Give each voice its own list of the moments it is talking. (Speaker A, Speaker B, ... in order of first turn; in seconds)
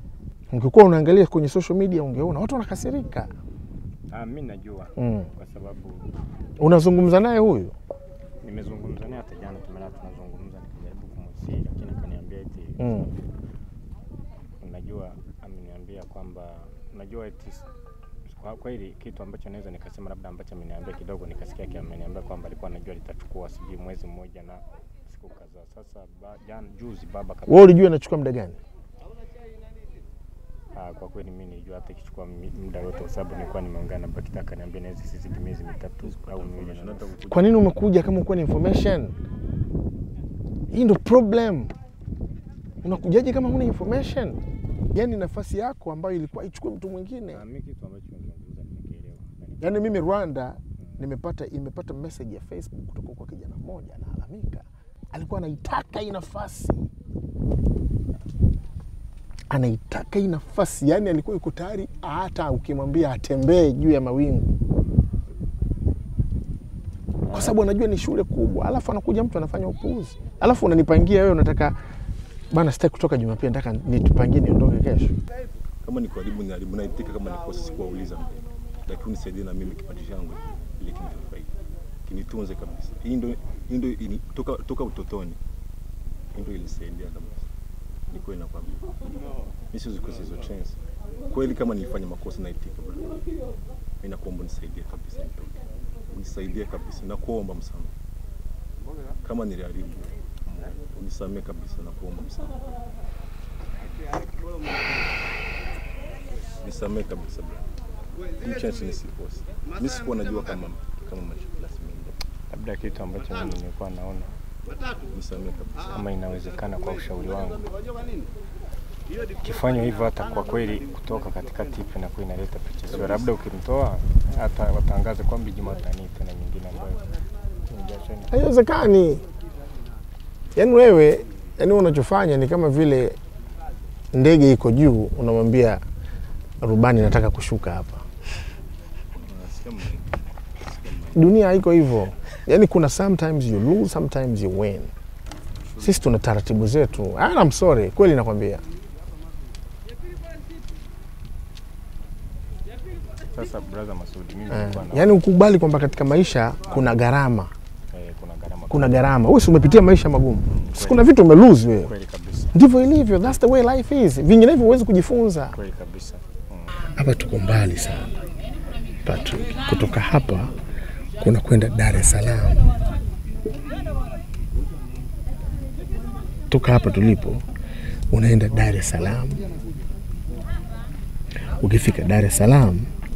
Speaker A: 0.5-3.3, 5.0-5.3, 6.6-7.7, 12.8-13.1, 27.5-28.6, 37.3-39.1, 40.7-41.7, 42.8-44.4, 44.9-47.4, 49.6-56.9, 59.5-64.5, 67.3-71.8, 72.5-75.1, 128.3-129.2, 130.6-133.2, 134.1-135.8, 136.6-138.0, 141.1-144.9, 145.8-148.6, 154.5-157.5, 158.7-161.9, 162.5-165.6, 166.9-168.1, 169.1-170.5, 171.2-172.7, 176.5-177.4, 178.1-179.4, 181.6-182.9
Speaker B: 4.1-6.1, 8.4-13.1, 14.6-17.6, 18.3-27.7, 30.7-37.2, 47.3-49.9, 112.5-114.3, 115.9-117.6, 119.4-127.1, 127.7-128.3, 153.3-155.2, 157.9-159.0, 160.5-161.1, 161.8-162.6, 165.5-166.7
Speaker C: 36.0-37.6, 75.8-81.5, 82.1-85.4, 86.3-87.5, 88.1-89.1, 89.7-90.8, 91.3-93.2, 94.0-97.9, 99.2-102.6, 106.6-107.6, 108.4-112.2, 115.1-116.0, 122.9-123.3, 139.1-141.3